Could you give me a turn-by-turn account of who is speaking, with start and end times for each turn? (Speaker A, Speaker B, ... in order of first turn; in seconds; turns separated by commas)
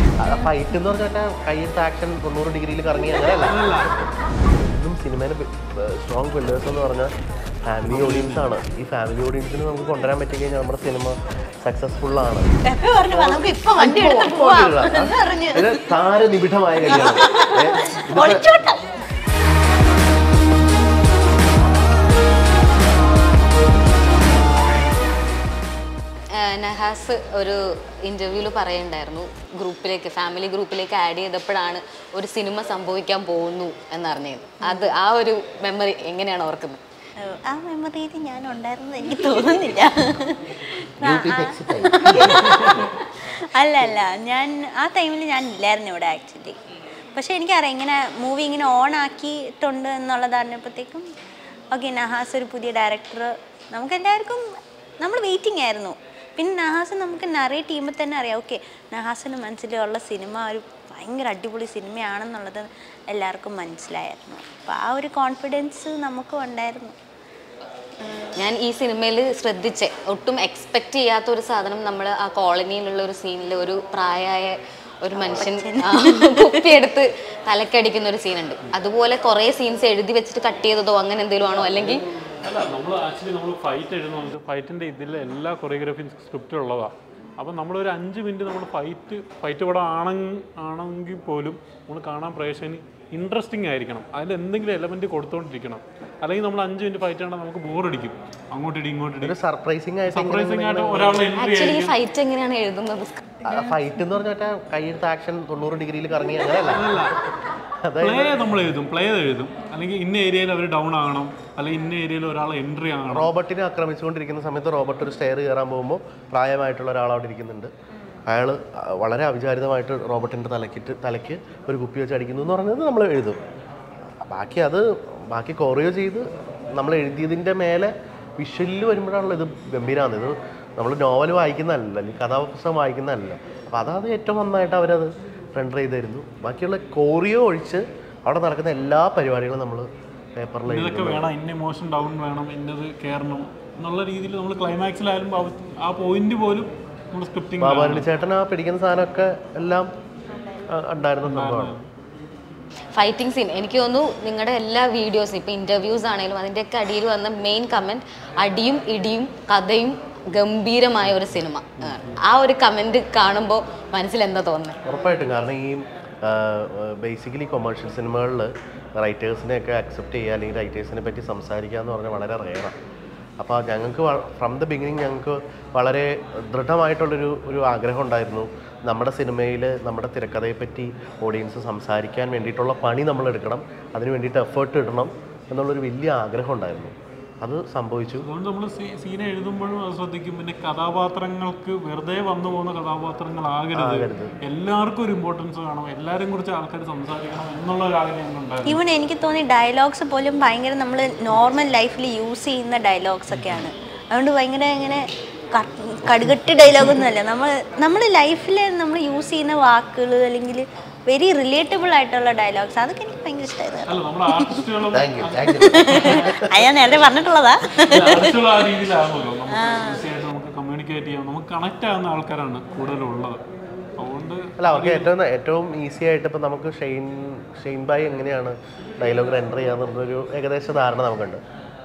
Speaker A: 0.2-7.1, Speaker B: 3.4-3.9, Speaker A: 7.7-12.5, Speaker B: 7.9-8.4, Speaker C: 12.6-15.8, Speaker A: 13.1-18.4, Speaker C: 16.9-18.8, Speaker D: 26.3-36.8, Speaker C: 37.2-46.6, Speaker A: 41.0-42.8, Speaker C: 47.1-51.1, Speaker C: 51.7-54.5, Speaker C: 55.0-66.9, Speaker C: 68.0-68.3, Speaker D: 68.4-82.0, Speaker C: 75.3-76.7, Speaker B: 82.4-99.3, Speaker A: 99.2-101.3, Speaker B: 100.1-101.9, Speaker D: 101.3-103.2, Speaker A: 103.4-107.2, Speaker B: 106.6-107.2, Speaker A: 107.8-108.5, Speaker B: 108.0-113.3, Speaker A: 113.1-117.7, Speaker A: 118.3-123.4, Speaker A: 124.3-141.3, Speaker B: 140.7-148.1, Speaker A: 147.6-149.9, Speaker A: 150.7-151.8, Speaker B: 151.2-151.9, Speaker D: 152.9-164.8, Speaker B: 161.8-162.2, Speaker A: 164.8-172.7, Speaker A: 173.4-188.3, Speaker B: 188.2-198.8, Speaker A: 193.7-194.3, Speaker C: 198.7-214.6, Speaker B: 203.3-203.6, Speaker B: 213.8-216.4, Speaker A: 214.9-216.4, Speaker C: 215.6-218.3, Speaker B: 217.8-223.4, Speaker C: 219.5-220.0, Speaker B: 224.0-225.1, Speaker A: 224.6-231.4